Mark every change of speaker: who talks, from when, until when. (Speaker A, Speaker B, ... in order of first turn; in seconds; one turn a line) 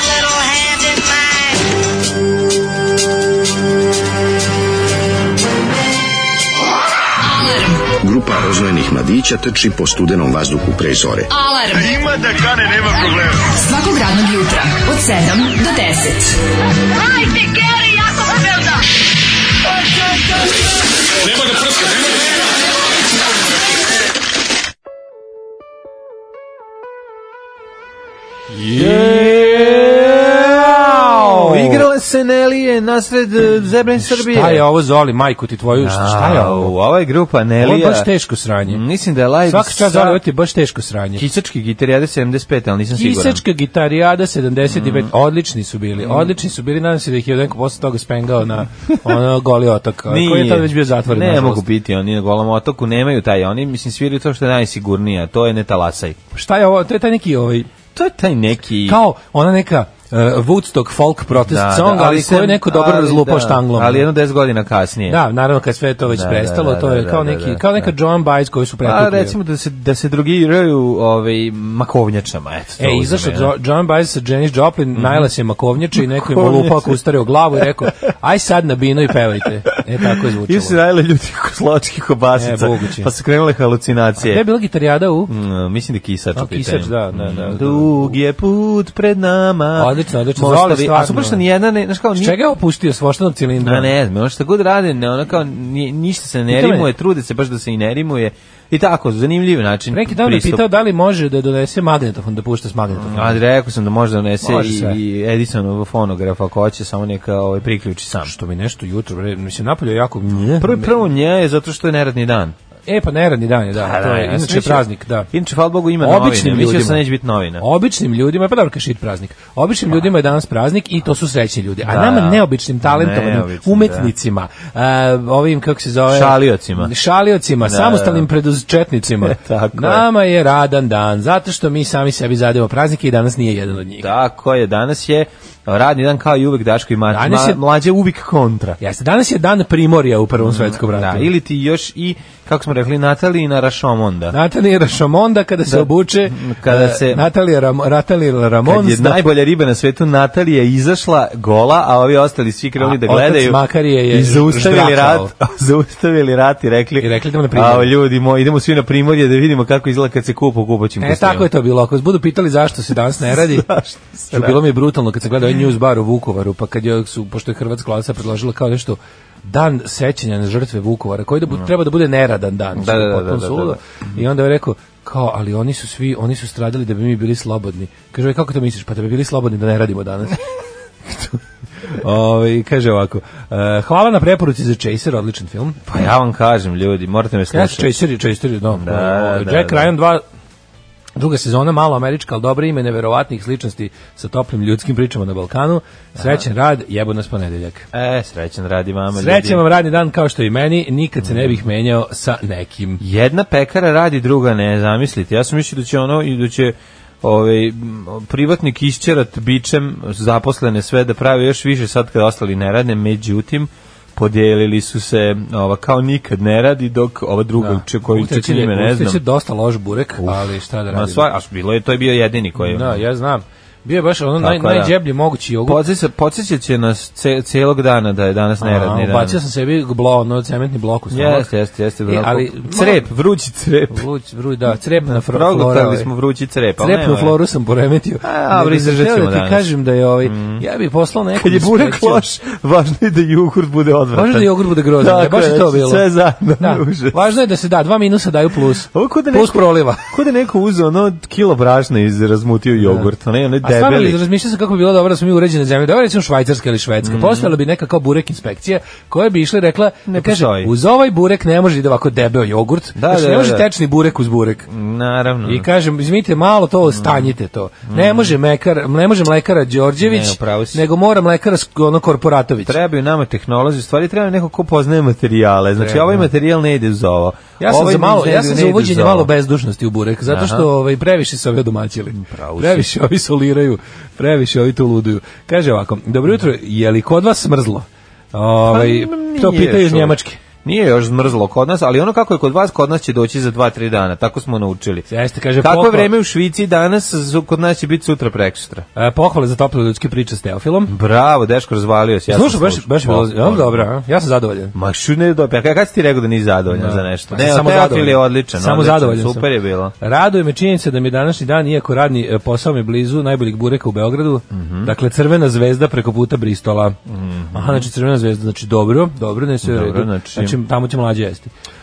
Speaker A: 7.2-7.8
Speaker B: 8.0-11.3
Speaker A: 11.3-16.4
Speaker A: 17.1-18.7
Speaker C: 28.5-31.9
Speaker D: 28.7-34.6
Speaker C: 34.0-36.7
Speaker D: 35.8-38.1
Speaker C: 37.6-38.8
Speaker D: 38.6-40.2
Speaker C: 39.5-41.2
Speaker D: 41.2-43.4
Speaker C: 42.9-51.6
Speaker D: 44.7-45.1
Speaker D: 46.0-46.3
Speaker D: 48.9-49.1
Speaker D: 50.1-56.2
Speaker C: 56.3-57.7
Speaker D: 58.0-59.0
Speaker C: 58.8-64.1
Speaker D: 61.3-65.2
Speaker C: 65.1-69.4
Speaker D: 66.1-67.9
Speaker D: 68.8-73.5
Speaker C: 72.8-80.8
Speaker D: 75.0-75.3
Speaker D: 75.9-77.0
Speaker D: 80.0-84.4
Speaker C: 82.3-83.1
Speaker C: 84.2-85.3
Speaker D: 85.3-92.4
Speaker C: 86.3-88.2
Speaker C: 89.8-91.4
Speaker C: 92.1-93.9
Speaker D: 93.6-100.6
Speaker C: 96.5-96.9
Speaker C: 99.9-103.4
Speaker D: 102.9-108.3
Speaker C: 104.4-105.0
Speaker C: 108.2-111.0
Speaker D: 110.6-112.5
Speaker C: 112.9-115.3
Speaker D: 113.8-117.6
Speaker C: 116.0-117.0
Speaker C: 117.6-134.1
Speaker D: 121.8-124.1
Speaker D: 126.1-126.9
Speaker D: 127.6-128.3
Speaker D: 129.2-130.1
Speaker D: 134.0-138.8
Speaker C: 137.1-137.6
Speaker C: 138.8-141.3
Speaker D: 140.4-144.3
Speaker C: 144.3-149.3
Speaker D: 145.7-147.3
Speaker D: 148.6-161.5
Speaker C: 152.8-155.3
Speaker C: 157.0-157.9
Speaker C: 161.0-163.7
Speaker D: 163.3-164.6
Speaker C: 164.3-180.4
Speaker D: 172.7-173.8
Speaker C: 181.1-181.4
Speaker C: 181.9-185.8
Speaker D: 185.9-187.9
Speaker C: 187.5-190.2
Speaker D: 188.7-189.9
Speaker C: 191.2-197.9
Speaker D: 196.2-196.4
Speaker D: 197.9-199.6
Speaker C: 199.1-203.0
Speaker D: 201.2-201.6
Speaker D: 203.0-219.2
Speaker C: 217.6-221.3
Speaker D: 220.2-223.0
Speaker C: 222.6-225.8
Speaker D: 224.4-224.9
Speaker D: 225.6-229.4
Speaker C: 228.6-231.5
Speaker D: 231.1-234.0
Speaker C: 232.1-233.1
Speaker C: 233.9-236.1
Speaker D: 235.0-237.3
Speaker C: 236.8-242.2
Speaker D: 238.2-239.7
Speaker D: 240.2-240.6
Speaker D: 241.3-247.2
Speaker C: 244.1-246.1
Speaker C: 246.6-250.1
Speaker D: 248.8-254.2
Speaker C: 252.8-253.1
Speaker C: 253.6-264.7
Speaker D: 257.0-257.5
Speaker D: 260.1-260.7
Speaker D: 262.9-263.6
Speaker D: 264.7-265.7
Speaker C: 265.4-272.8
Speaker D: 266.9-267.3
Speaker D: 267.9-268.3
Speaker D: 270.0-270.8
Speaker D: 272.6-279.3
Speaker C: 275.8-276.3
Speaker C: 277.6-290.4
Speaker D: 280.2-280.7
Speaker D: 282.1-282.9
Speaker D: 288.6-295.1
Speaker C: 295.1-296.1
Speaker D: 295.6-298.9
Speaker C: 298.9-300.9
Speaker D: 300.9-303.9
Speaker C: 302.3-304.7
Speaker D: 304.8-309.9
Speaker C: 306.7-309.5
Speaker C: 310.0-317.0
Speaker D: 314.5-314.9
Speaker D: 317.1-317.9
Speaker C: 317.5-321.5
Speaker D: 319.6-320.6